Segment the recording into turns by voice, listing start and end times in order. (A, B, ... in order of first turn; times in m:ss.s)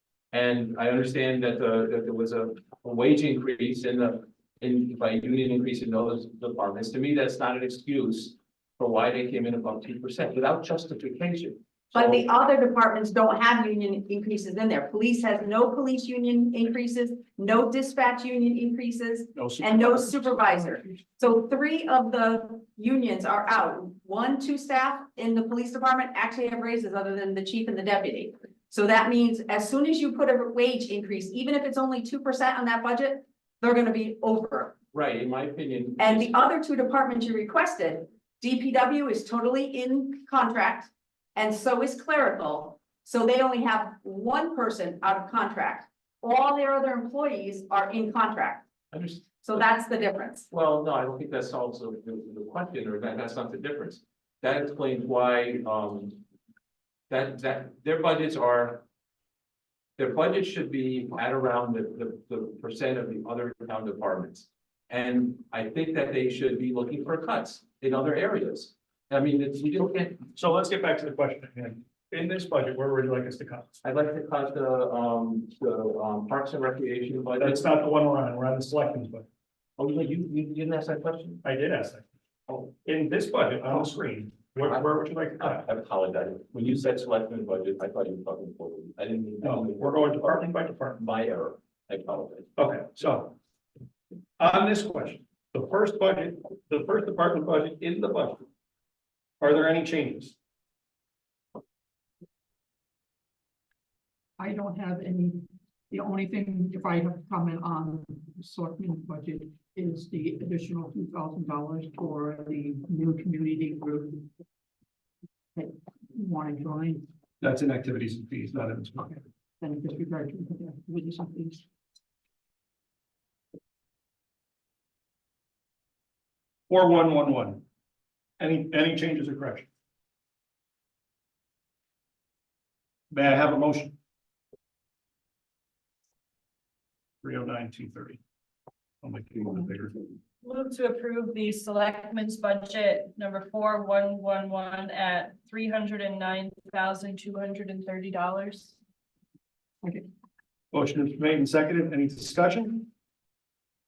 0:00.3-0:12.2 A
0:11.9-0:34.7 B
0:19.3-0:20.3 C
0:34.9-0:36.5 A
0:36.0-0:48.6 B
0:48.9-0:49.3 A
0:49.4-0:50.5 B
0:50.5-0:56.2 A
0:57.1-0:58.8 A
1:00.0-1:10.2 A
1:10.3-1:13.7 C
1:13.8-1:17.6 A
1:17.4-1:19.2 C
1:19.8-1:21.4 A
1:21.4-1:25.6 C
1:25.4-1:29.8 A
1:29.4-1:31.0 C
1:31.0-1:32.5 A
1:32.6-1:33.4 C
1:34.4-1:38.4 C
1:39.4-1:40.3 C
1:44.4-1:54.3 D
1:55.5-1:57.0 D
1:57.4-1:59.2 C
1:59.6-2:01.6 D
2:06.7-2:07.6 C
2:08.4-2:09.7 C
2:13.1-2:14.0 C
2:17.2-2:18.2 C
2:19.0-2:20.0 C
2:20.4-2:28.7 E
2:30.7-2:32.9 C